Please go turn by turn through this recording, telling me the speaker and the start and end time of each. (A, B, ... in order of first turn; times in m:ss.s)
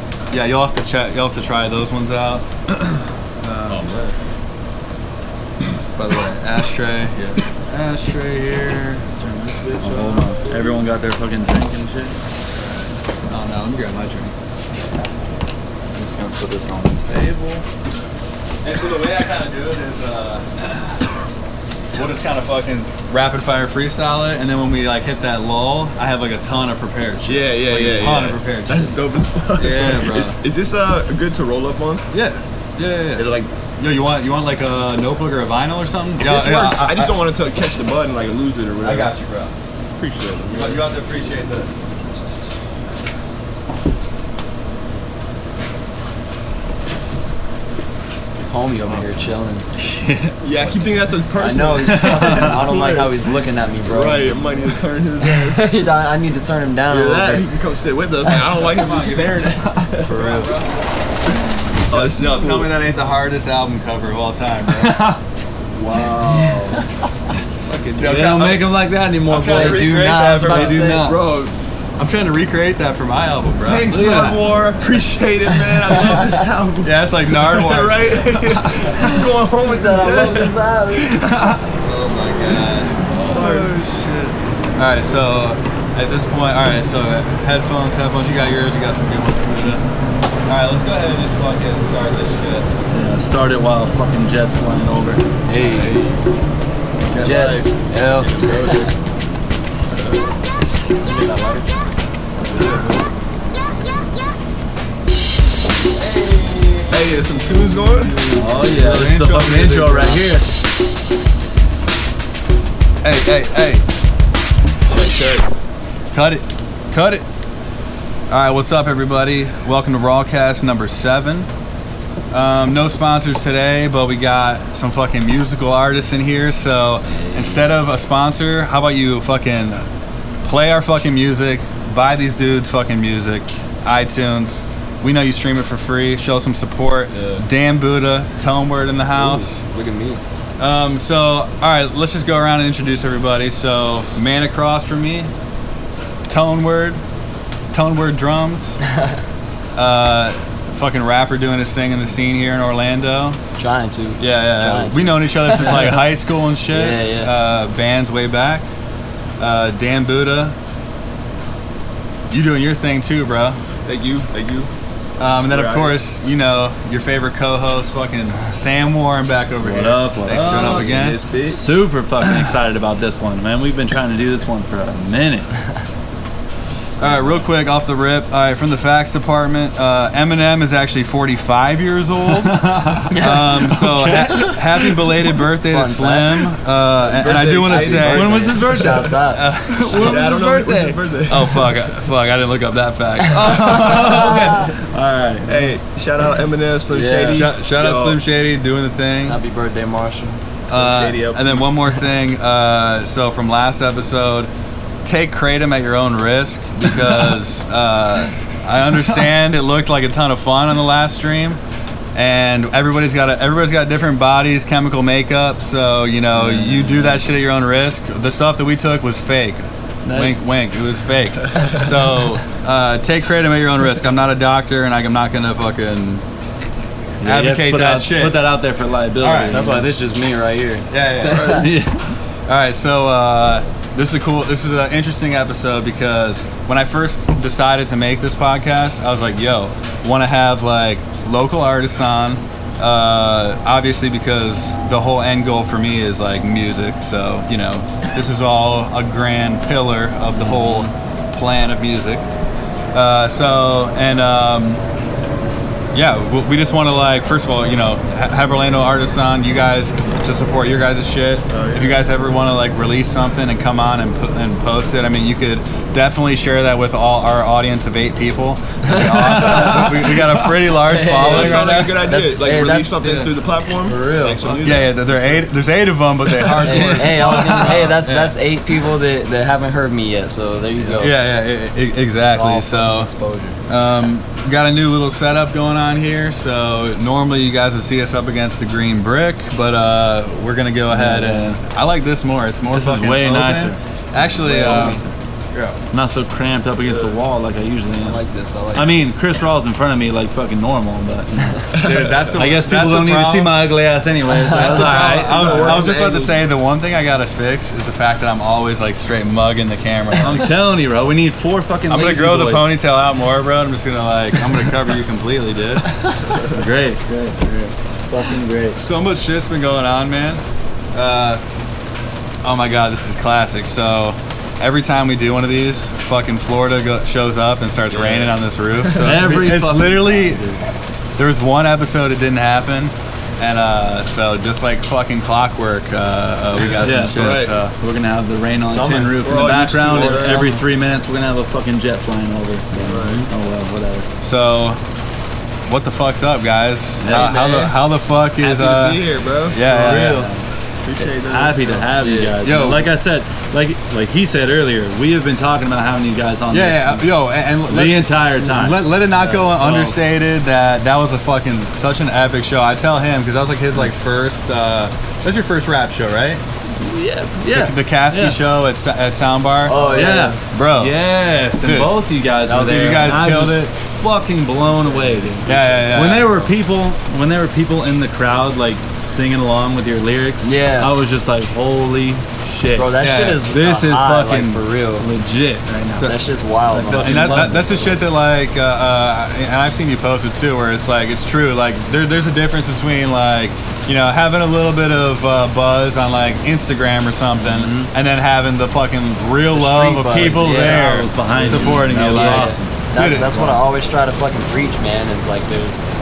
0:00.3-0:03.9 A
0:03.7-0:04.1 B
0:06.0-0:09.1 A
0:09.2-0:12.2 C
0:12.5-0:14.3 A
0:15.9-0:17.6 C
0:18.6-0:21.0 A
0:21.9-0:28.9 A
0:27.2-0:32.0 B
0:29.6-0:30.4 A
0:32.1-0:33.3 A
0:33.1-0:33.5 B
0:33.8-0:37.1 A
0:36.2-0:39.1 B
0:38.8-0:39.5 A
0:40.0-0:40.9 B
0:40.5-0:41.8 A
0:48.5-0:49.6 D
0:49.8-0:50.3 C
0:50.4-0:53.3 B
0:51.4-0:54.5 D
0:52.0-0:52.5 C
0:53.8-0:55.7 B
0:55.2-0:57.4 D
0:56.9-1:00.4 B
0:58.7-1:00.8 A
1:01.8-1:05.0 A
1:01.9-1:02.7 B
1:04.7-1:05.2 C
1:05.8-1:06.8 B
1:06.3-1:06.8 D
1:07.4-1:11.2 C
1:07.9-1:08.7 A
1:09.3-1:11.0 A
1:09.4-1:11.1 D
1:10.9-1:11.5 B
1:12.0-1:13.9 A
1:13.6-1:20.6 B
1:13.9-1:14.4 C
1:15.7-1:16.4 D
1:16.8-1:18.4 A
1:19.0-1:21.2 D
1:21.2-1:21.6 C
1:21.8-1:23.4 A
1:23.0-1:23.8 B
1:23.3-1:24.4 C
1:24.8-1:29.8 A
1:30.5-1:32.7 A
1:32.9-1:35.2 C
1:35.4-1:36.0 D
1:35.6-1:36.2 B
1:37.1-1:38.9 B
1:37.2-1:38.8 D
1:41.0-1:41.7 D
1:42.5-1:43.0 B
1:46.0-1:47.1 A
1:46.9-1:48.2 B
1:48.1-1:50.2 A
1:48.3-1:50.4 C
1:53.0-1:53.8 A
1:54.9-1:55.4 B
1:56.1-1:57.2 A
1:58.3-2:01.5 A
2:02.3-2:09.8 A
2:07.2-2:07.7 D
2:10.4-2:19.6 A
2:17.1-2:17.4 B
2:19.2-2:20.2 D
2:20.6-2:25.3 A
2:26.3-2:27.0 A
2:27.7-2:28.8 A
2:29.8-2:33.4 A
2:33.6-2:36.0 D
2:34.2-2:38.6 A
2:36.7-2:37.3 D
2:39.4-2:40.5 A
2:42.3-2:43.6 A
2:43.8-2:44.7 B
2:45.2-2:51.2 A
2:45.4-2:46.0 B
2:49.6-2:55.5 C
2:50.3-2:51.6 B
2:57.0-3:08.5 A
3:02.5-3:03.2 C
3:03.1-3:03.9 D
3:05.7-3:06.5 D
3:07.0-3:08.7 B
3:07.7-3:09.4 D
3:07.9-3:09.2 C
3:09.3-3:10.4 A
3:09.7-3:11.0 C
3:09.9-3:11.7 B
3:11.3-3:14.1 A
3:13.3-3:15.7 C
3:15.4-3:18.2 B
3:16.9-3:17.5 D
3:17.3-3:19.4 A
3:19.2-3:20.4 D
3:20.7-3:21.7 B
3:20.7-3:24.5 A
3:25.0-3:31.6 A
3:32.1-3:39.6 A
3:36.3-3:37.2 C
3:40.0-3:40.4 C
3:40.1-3:46.2 A
3:47.2-3:48.4 A
3:47.2-3:49.9 C
3:49.2-3:49.6 A
3:49.5-3:51.7 D
3:50.9-3:51.7 A
3:51.4-3:52.1 C
3:52.5-4:12.2 A
4:10.4-4:10.9 C
4:12.9-4:14.8 A
4:15.9-4:32.0 A
4:21.5-4:22.0 B
4:28.9-4:29.8 D
4:28.9-4:30.7 C
4:30.9-4:35.5 B
4:31.1-4:33.2 D
4:33.8-4:34.6 D
4:34.6-4:38.3 A
4:36.6-4:37.9 C
4:36.6-4:41.2 D
4:41.0-4:43.1 A
4:42.3-4:43.6 D
4:43.7-4:55.0 A
4:51.0-4:51.4 D
4:51.0-4:51.4 C
4:52.7-4:53.8 C
4:54.4-4:55.1 C
4:54.4-4:55.0 D
4:55.9-4:58.2 C
4:56.8-4:57.2 B
4:58.0-4:59.0 D
4:58.7-5:01.5 C
5:01.4-5:01.6 D
5:01.7-5:02.4 B
5:01.8-5:03.6 A
5:02.4-5:05.8 C
5:04.6-5:10.4 A
5:04.6-5:06.4 B
5:10.2-5:12.7 C
5:11.9-5:15.9 A
5:16.4-5:18.8 C
5:18.8-5:20.4 A
5:20.9-5:21.4 A
5:22.4-5:30.4 A
5:27.9-5:29.2 B
5:29.0-5:30.6 C
5:31.2-5:37.7 A
5:36.8-5:42.7 C
5:37.0-5:37.5 B
5:38.6-5:39.5 D
5:39.2-5:40.5 B
5:39.8-5:40.3 A
5:40.0-5:40.5 D
5:42.7-5:43.3 D
5:42.8-5:43.3 B
5:43.3-5:44.1 C
5:44.2-5:44.8 A
5:45.7-5:50.2 A
5:47.0-5:47.4 C
5:47.1-5:47.8 B
5:48.4-5:49.6 B
5:49.7-5:50.3 D
5:49.7-5:50.4 C
5:50.8-5:51.9 B
5:51.2-5:57.1 C
5:52.0-5:52.4 D
5:52.4-5:52.9 A
5:56.5-6:06.4 A
5:57.7-6:00.0 C
6:06.8-6:08.4 C
6:07.5-6:10.9 A
6:09.6-6:10.4 D
6:09.8-6:26.1 C
6:11.6-6:12.0 A
6:12.4-6:13.1 D
6:12.6-6:13.7 A
6:15.4-6:16.3 A
6:15.5-6:16.3 B
6:20.4-6:20.9 D
6:22.8-6:25.1 D
6:23.0-6:23.4 A
6:26.0-6:27.9 D
6:26.7-6:27.8 C
6:26.9-6:43.5 A
6:37.4-6:37.9 D
6:39.5-6:45.8 D
6:40.1-6:42.7 C